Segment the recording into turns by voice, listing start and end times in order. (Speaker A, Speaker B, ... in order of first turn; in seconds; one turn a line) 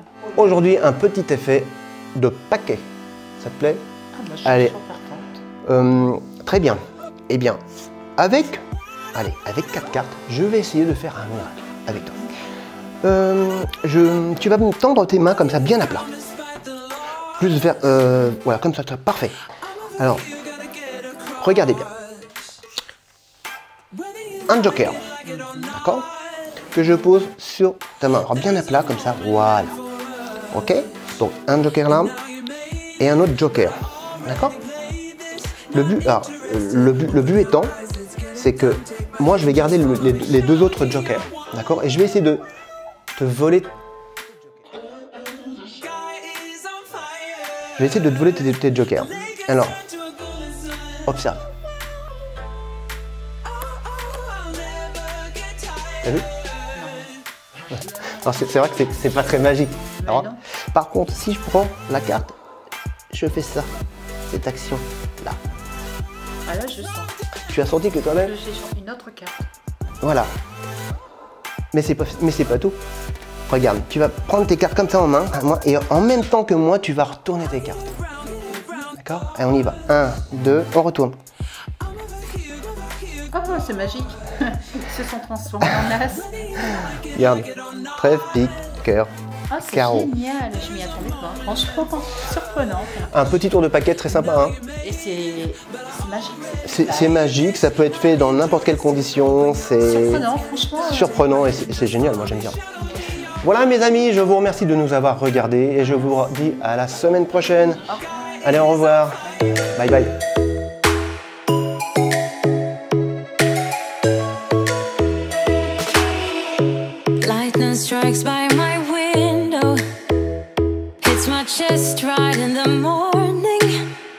Speaker A: 0.3-2.9
Speaker A: 3.4-3.8
Speaker B: 4.1-5.4
Speaker A: 4.4-4.8
Speaker A: 5.7-7.6
Speaker A: 8.2-8.6
Speaker A: 9.1-12.2
Speaker A: 13.0-16.1
Speaker A: 17.4-19.4
Speaker A: 20.0-20.3
Speaker A: 21.4-21.9
Speaker A: 24.4-25.1
Speaker B: 25.2-25.7
Speaker A: 25.7-26.1
Speaker A: 26.7-29.8
Speaker A: 30.5-32.1
Speaker A: 33.0-34.6
Speaker A: 35.7-37.7
Speaker A: 38.3-42.5
Speaker A: 43.2-43.7
Speaker A: 47.8-49.8
Speaker A: 51.0-51.5
Speaker B: 56.7-57.1
Speaker A: 57.7-62.4
Speaker B: 60.0-60.4
Speaker A: 63.1-63.7
Speaker A: 64.3-65.4
Speaker B: 66.5-67.1
Speaker A: 67.5-68.3
Speaker B: 68.2-69.4
Speaker A: 70.0-70.3
Speaker A: 71.7-72.8
Speaker A: 73.5-77.9
Speaker A: 79.0-81.2
Speaker B: 83.3-86.9
Speaker A: 86.9-89.1
Speaker B: 89.5-93.1
Speaker A: 89.6-90.1
Speaker A: 93.1-94.6
Speaker B: 94.8-97.2
Speaker A: 96.6-100.2
Speaker B: 99.8-101.9
Speaker A: 100.8-102.6
Speaker A: 103.4-110.2
Speaker B: 107.9-108.5
Speaker B: 109.2-109.7
Speaker C: 117.2-119.8
Speaker C: 121.0-123.9